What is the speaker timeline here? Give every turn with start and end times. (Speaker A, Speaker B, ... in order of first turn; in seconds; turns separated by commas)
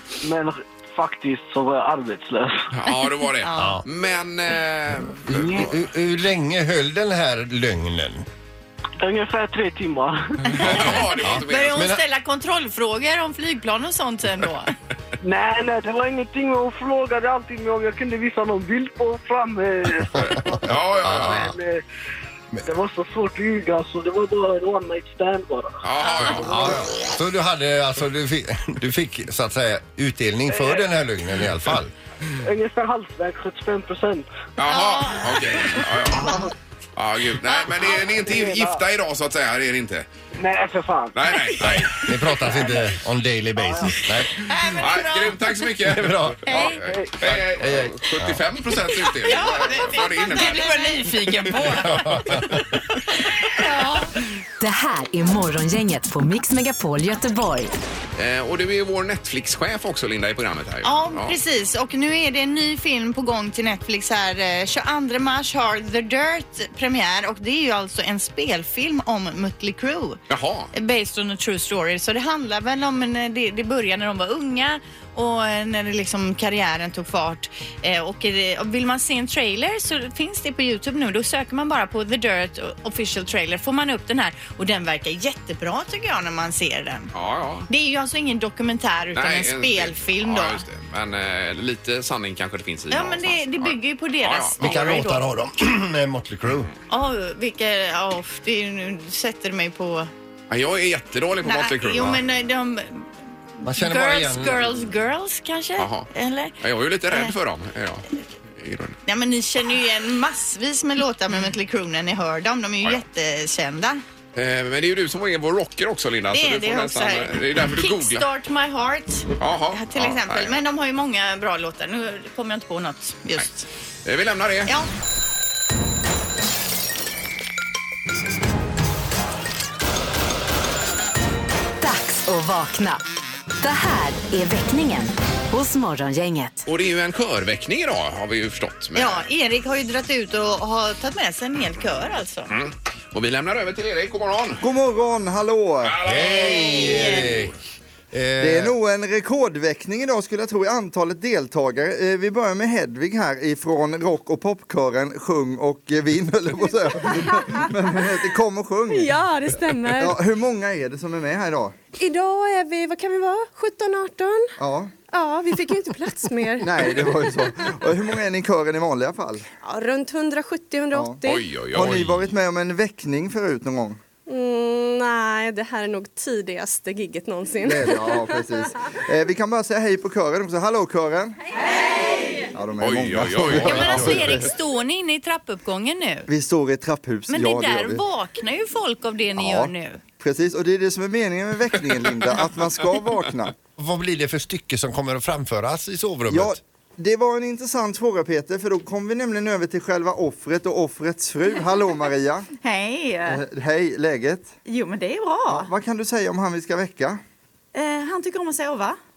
Speaker A: 0.2-2.6, Speaker B: 2.7-5.8, Speaker C: 3.4-3.8, Speaker D: 3.5-3.8, Speaker D: 5.2-8.2, Speaker A: 9.0-10.4, Speaker C: 10.5-14.7, Speaker B: 10.6-11.9, Speaker D: 10.6-12.0, Speaker A: 15.2-21.8, Speaker D: 20.1-21.6, Speaker B: 20.2-21.5, Speaker A: 22.6-25.8, Speaker B: 25.8-26.8, Speaker C: 26.0-26.4, Speaker D: 26.4-31.9, Speaker A: 26.4-26.8, Speaker A: 30.5-30.9, Speaker A: 32.4-34.3, Speaker B: 34.6-36.4, Speaker C: 34.6-35.6, Speaker A: 36.2-36.5, Speaker B: 37.0-40.0, Speaker C: 37.5-37.8, Speaker A: 37.9-38.8, Speaker A: 40.4-41.2, Speaker B: 41.1-42.0, Speaker D: 41.6-44.5, Speaker A: 43.6-43.9, Speaker C: 44.4-45.4, Speaker B: 44.8-51.6, Speaker D: 45.8-48.4, Speaker C: 46.5-46.8, Speaker A: 46.6-47.1, Speaker C: 49.0-51.4, Speaker E: 49.8-52.0, Speaker D: 51.7-52.6, Speaker C: 53.4-54.1, Speaker F: 54.6-57.7, Speaker B: 58.2-61.4, Speaker C: 60.8-70.2, Speaker B: 70.3-70.7, Speaker C: 70.7-87.1, Speaker B: 87.1-87.7, Speaker C: 87.7-90.6, Speaker B: 89.1-95.0, Speaker C: 92.9-95.3, Speaker D: 94.6-96.7, Speaker C: 96.9-100.1, Speaker B: 100.5-102.2, Speaker C: 101.4-103.1, Speaker C: 103.6-106.5, Speaker D: 103.6-104.8, Speaker B: 105.8-106.1, Speaker B: 106.6-109.0, Speaker C: 109.0-114.0, Speaker B: 114.3-118.2, Speaker C: 116.3-123.7, Speaker B: 119.4-120.5, Speaker B: 124.0-124.7, Speaker F: 131.8-133.0, Speaker F: 133.6-136.6, Speaker B: 136.7-139.2, Speaker C: 138.9-142.5, Speaker B: 142.5-144.6, Speaker G: 144.6-146.0, Speaker B: 145.8-147.5, Speaker D: 146.0-147.6, Speaker C: 146.3-147.2, Speaker D: 148.1-148.8, Speaker G: 148.4-161.8, Speaker H: 158.9-160.2, Speaker H: 162.0-164.5, Speaker G: 164.6-164.9, Speaker H: 165.1-167.3, Speaker G: 166.6-169.5, Speaker H: 169.6-171.5, Speaker G: 170.9-171.2, Speaker B: 171.2-172.3, Speaker G: 171.7-174.0, Speaker H: 174.3-178.4, Speaker G: 177.6-181.3, Speaker G: 182.5-184.5, Speaker B: 182.8-184.5, Speaker C: 183.5-186.3, Speaker G: 186.3-188.0, Speaker C: 187.3-190.0, Speaker G: 189.3-193.5, Speaker D: 193.8-196.6, Speaker G: 196.3-202.5, Speaker E: 202.6-203.4, Speaker G: 203.2-204.5, Speaker E: 204.7-205.7, Speaker G: 205.5-207.2, Speaker E: 207.7-209.0